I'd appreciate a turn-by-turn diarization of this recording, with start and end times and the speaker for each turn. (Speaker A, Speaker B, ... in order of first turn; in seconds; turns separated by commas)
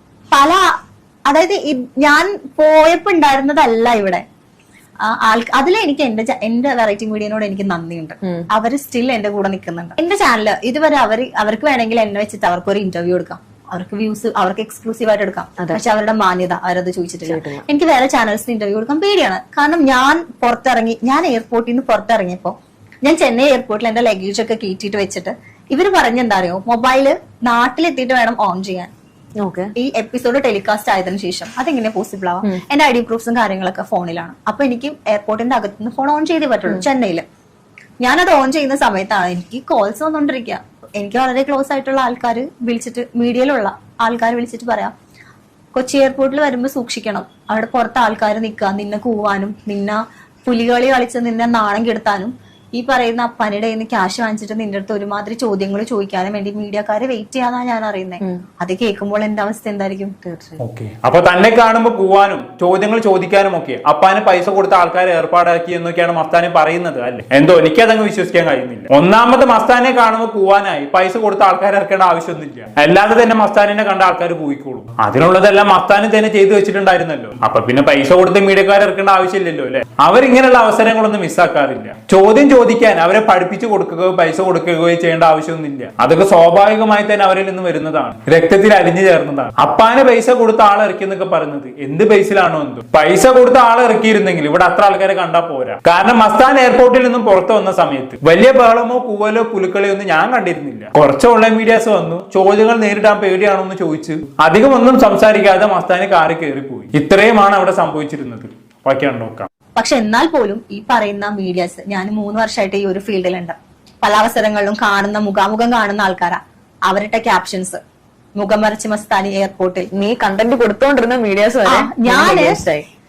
Speaker A: 0.3-0.7, Speaker A: 1.3-4.2, Speaker A: 5.0-28.9, Speaker B: 8.2-8.5, Speaker B: 17.3-17.6, Speaker B: 29.4-29.7, Speaker A: 29.8-37.2, Speaker A: 38.0-44.9, Speaker A: 45.8-60.1, Speaker B: 60.2-60.6, Speaker C: 60.6-109.5, Speaker A: 109.8-117.8, Speaker A: 118.4-119.9, Speaker B: 119.9-122.9, Speaker A: 121.7-122.6